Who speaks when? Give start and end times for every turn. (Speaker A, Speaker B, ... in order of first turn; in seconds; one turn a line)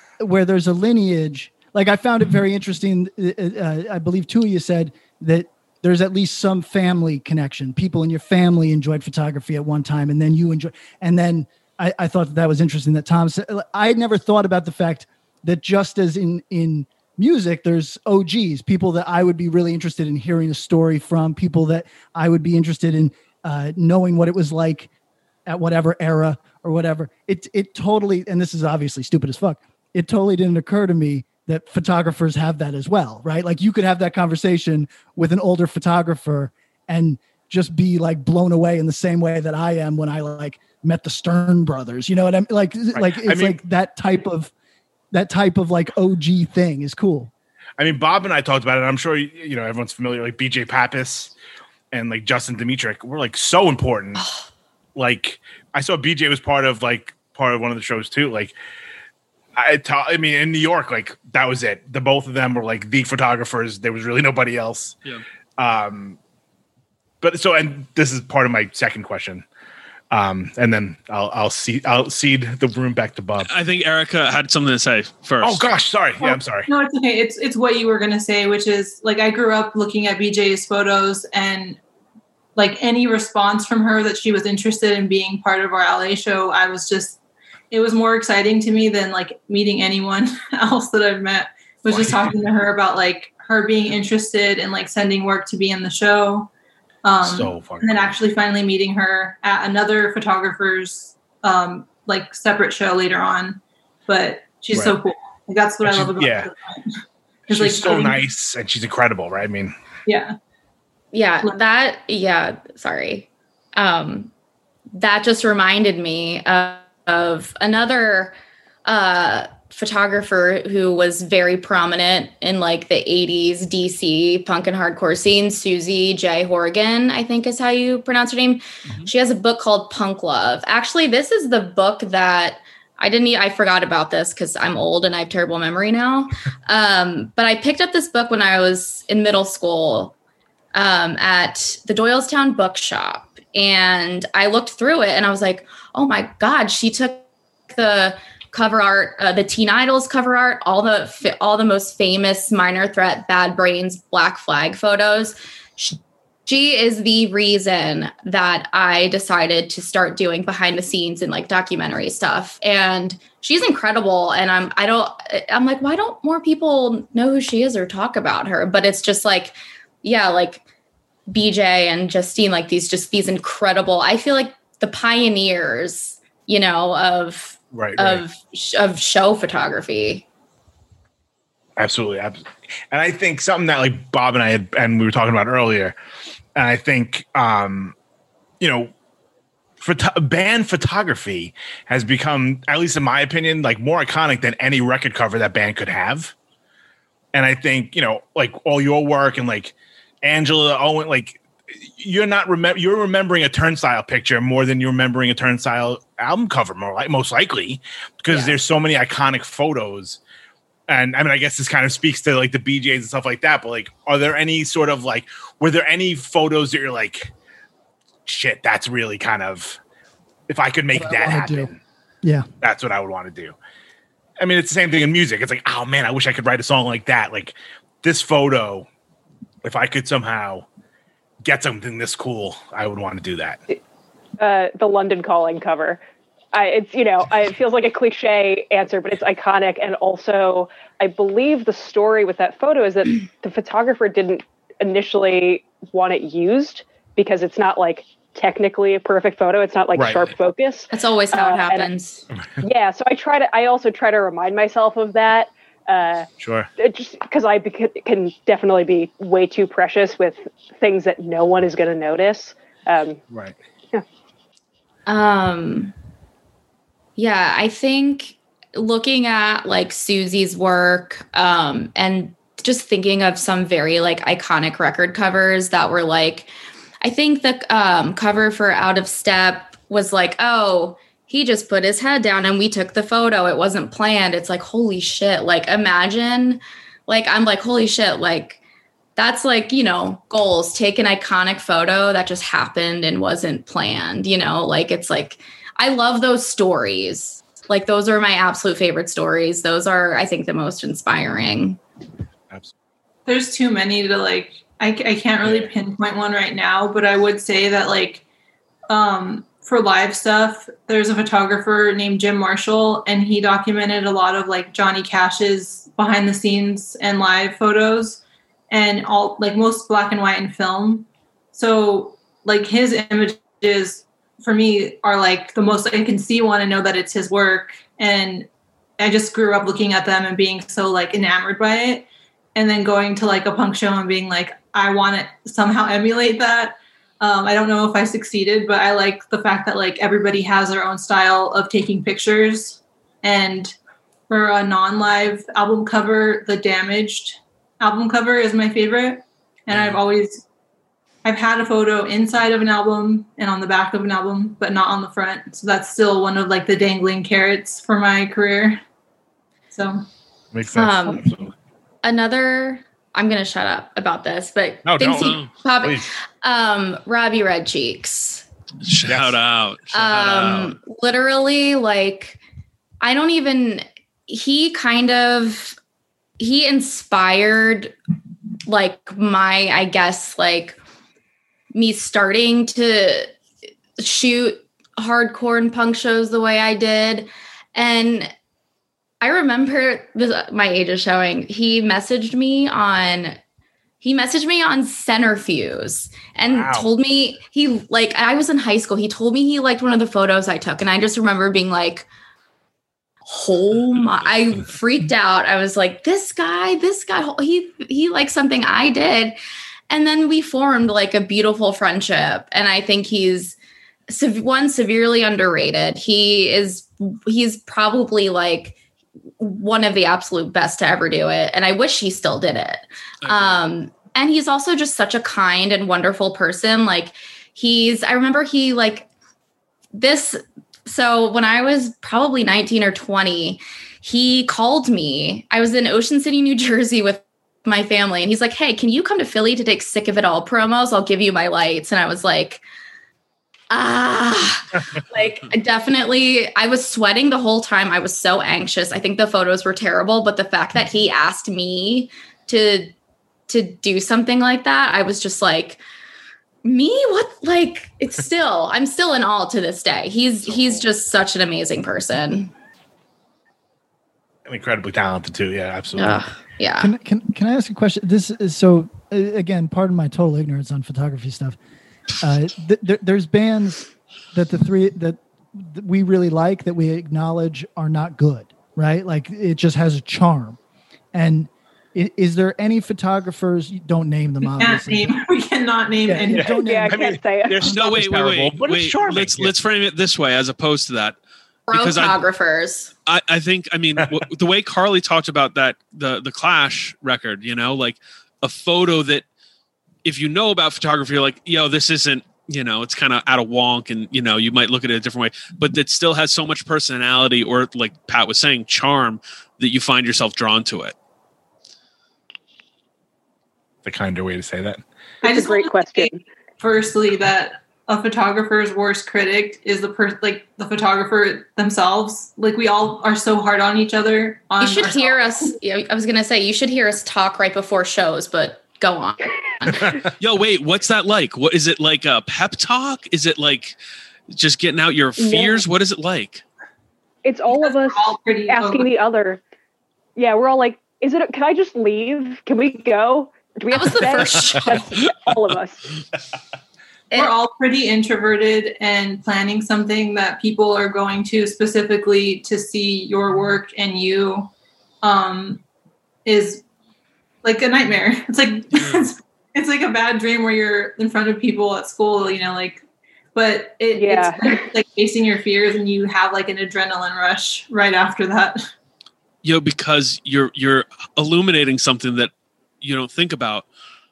Speaker A: 0.2-24.9
Speaker A: 25.5-44.5
Speaker B: 43.0-43.6
Speaker A: 45.1-47.3
Speaker B: 47.8-51.3
Speaker B: 51.9-54.2
Speaker C: 54.2-54.5
Speaker B: 55.0-58.6
Speaker B: 59.6-65.0
Speaker B: 65.6-66.2
Speaker B: 67.2-69.5
Speaker B: 70.1-73.5
Speaker D: 73.5-75.6
Speaker B: 75.4-76.7
Speaker E: 76.2-81.8
Speaker E: 82.6-87.2
Speaker E: 87.7-96.5
Speaker B: 91.9-92.3
Speaker E: 97.0-106.9
Speaker B: 97.2-98.2
Speaker B: 104.7-105.0
Speaker B: 105.8-106.5
Speaker E: 107.5-108.2
Speaker B: 107.5-109.8
Speaker E: 110.1-110.3
Speaker C: 111.1-114.3
Speaker C: 114.9-140.2
Speaker C: 140.7-170.6
Speaker C: 171.3-180.2
Speaker B: 177.7-178.2
Speaker B: 181.8-185.9
Speaker B: 186.6-187.9
Speaker B: 188.6-188.9
Speaker B: 189.8-196.3
Speaker B: 197.3-201.4
Speaker B: 202.0-210.2
Speaker B: 210.9-217.3
Speaker B: 218.3-219.8
Speaker B: 220.5-221.8
Speaker A: 220.9-221.7
Speaker B: 222.6-223.6
Speaker B: 224.4-228.9
Speaker B: 229.6-230.7
Speaker B: 231.4-233.6
Speaker F: 234.4-236.0
Speaker F: 236.5-251.9
Speaker B: 249.9-250.4
Speaker C: 250.9-252.2
Speaker F: 252.6-256.3
Speaker B: 256.4-256.7
Speaker F: 256.8-263.2
Speaker C: 265.1-265.9
Speaker C: 267.2-276.5
Speaker C: 277.0-288.6
Speaker C: 289.2-301.8
Speaker E: 303.3-308.2
Speaker B: 305.4-305.7
Speaker E: 308.9-343.8
Speaker E: 344.3-350.4
Speaker B: 349.7-350.0
Speaker E: 351.2-358.8
Speaker E: 359.7-360.0
Speaker B: 360.5-361.5
Speaker C: 360.8-361.2
Speaker C: 362.0-368.4
Speaker B: 364.9-366.1
Speaker D: 365.2-365.5
Speaker D: 368.8-370.8
Speaker B: 369.1-369.4
Speaker C: 369.9-372.4
Speaker C: 373.0-375.8
Speaker C: 376.4-377.9
Speaker C: 378.7-380.8
Speaker C: 381.7-383.3
Speaker C: 384.0-388.3
Speaker C: 389.2-393.4
Speaker C: 394.0-402.1
Speaker B: 396.4-396.9
Speaker C: 403.3-409.4
Speaker C: 409.9-413.6
Speaker C: 414.1-418.8
Speaker C: 419.4-429.1
Speaker D: 423.2-423.6
Speaker C: 429.9-442.6
Speaker C: 443.7-452.9
Speaker C: 453.5-455.8
Speaker C: 456.6-462.5
Speaker B: 460.5-460.8
Speaker B: 464.5-466.2
Speaker C: 466.0-466.9
Speaker A: 466.8-471.6
Speaker A: 472.2-480.6
Speaker A: 481.1-485.1
Speaker E: 484.6-486.5
Speaker A: 486.0-487.2
Speaker B: 486.3-489.5
Speaker F: 486.4-487.7
Speaker D: 487.6-491.2
Speaker C: 491.7-492.9
Speaker D: 491.7-492.2
Speaker D: 493.1-499.3
Speaker D: 500.1-510.9
Speaker B: 513.9-514.8
Speaker F: 515.2-516.2
Speaker E: 515.2-525.5
Speaker C: 524.6-529.3
Speaker B: 529.6-530.1
Speaker D: 530.2-533.8
Speaker D: 534.3-536.4
Speaker F: 535.2-535.7
Speaker F: 537.2-539.4
Speaker E: 537.5-538.9
Speaker F: 540.2-545.9
Speaker C: 543.7-545.0
Speaker E: 547.1-554.5
Speaker E: 555.0-555.6
Speaker E: 556.3-556.6
Speaker E: 557.4-562.8
Speaker D: 558.7-559.1
Speaker E: 563.4-568.6
Speaker F: 563.9-564.7
Speaker D: 569.4-573.7